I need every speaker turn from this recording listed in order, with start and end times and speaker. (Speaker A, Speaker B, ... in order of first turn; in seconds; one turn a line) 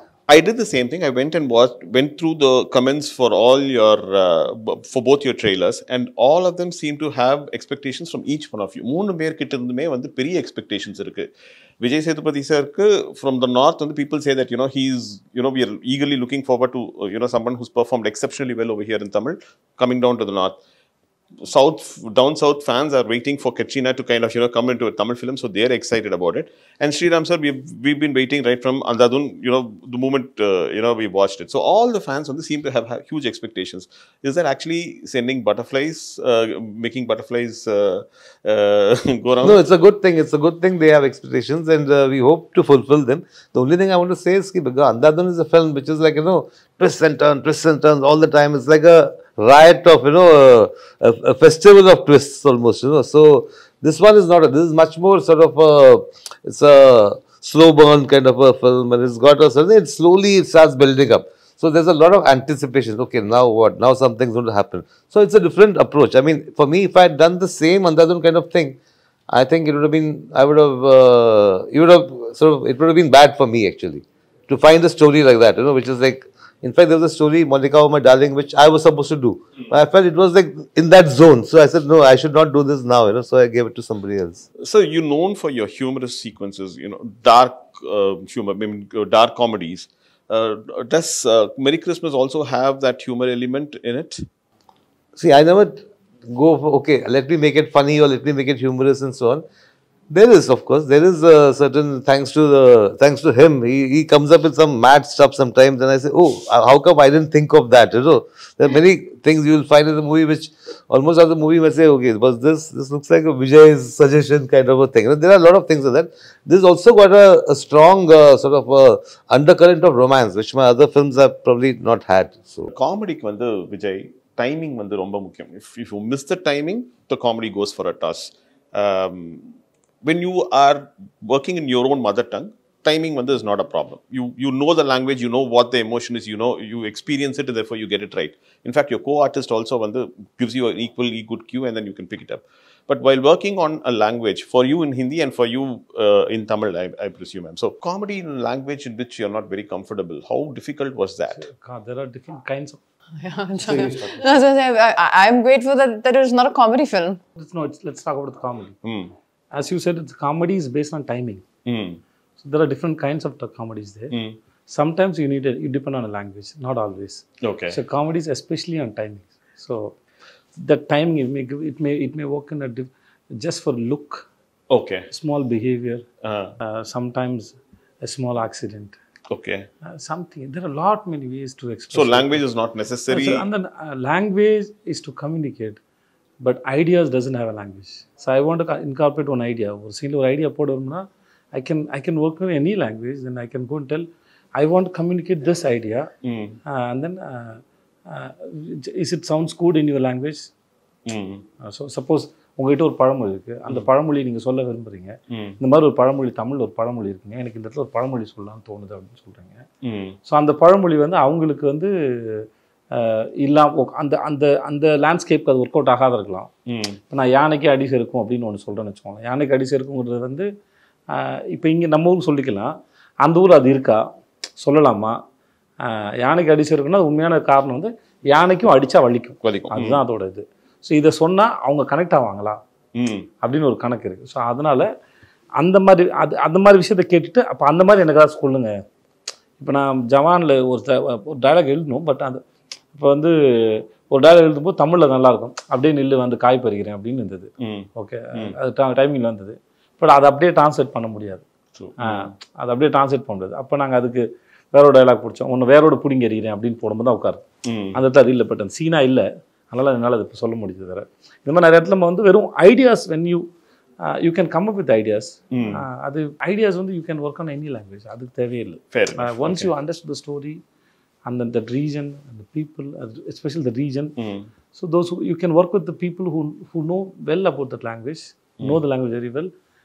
Speaker A: 0.3-20.6
Speaker A: 21.4-39.6
Speaker B: 39.4-68.8
Speaker B: 69.3-84.4
Speaker A: 84.6-94.2
Speaker B: 95.2-99.4
Speaker B: 100.1-122.7
Speaker A: 122.7-151.4
Speaker C: 151.3-152.8
Speaker D: 153.2-157.2
Speaker C: 153.6-154.1
Speaker C: 157.4-158.8
Speaker A: 158.8-159.1
Speaker C: 159.5-161.4
Speaker A: 161.7-162.0
Speaker C: 162.4-164.1
Speaker A: 164.1-164.3
Speaker C: 164.7-169.9
Speaker A: 167.4-167.8
Speaker C: 170.6-174.2
Speaker A: 174.7-175.1
Speaker C: 175.1-176.0
Speaker A: 176.2-176.6
Speaker C: 176.6-178.9
Speaker A: 179.3-179.7
Speaker C: 179.8-182.4
Speaker A: 181.9-183.5
Speaker C: 183.1-185.8
Speaker C: 186.4-196.1
Speaker A: 196.2-196.6
Speaker C: 196.7-200.5
Speaker A: 201.1-201.4
Speaker C: 201.6-209.6
Speaker A: 205.3-205.6
Speaker A: 209.8-210.2
Speaker C: 210.3-216.5
Speaker A: 216.7-217.0
Speaker C: 217.1-220.5
Speaker C: 221.1-224.0
Speaker C: 224.6-225.2
Speaker C: 225.8-232.6
Speaker A: 229.4-230.0
Speaker A: 232.9-233.3
Speaker C: 233.4-234.9
Speaker C: 235.6-238.7
Speaker C: 239.6-242.4
Speaker C: 242.9-251.4
Speaker A: 247.6-248.6
Speaker A: 251.7-252.3
Speaker C: 252.0-257.4
Speaker A: 257.6-258.0
Speaker C: 257.9-263.4
Speaker C: 264.0-270.6
Speaker A: 265.5-265.8
Speaker A: 268.9-269.7
Speaker C: 271.2-274.1
Speaker A: 274.2-274.5
Speaker C: 274.7-279.5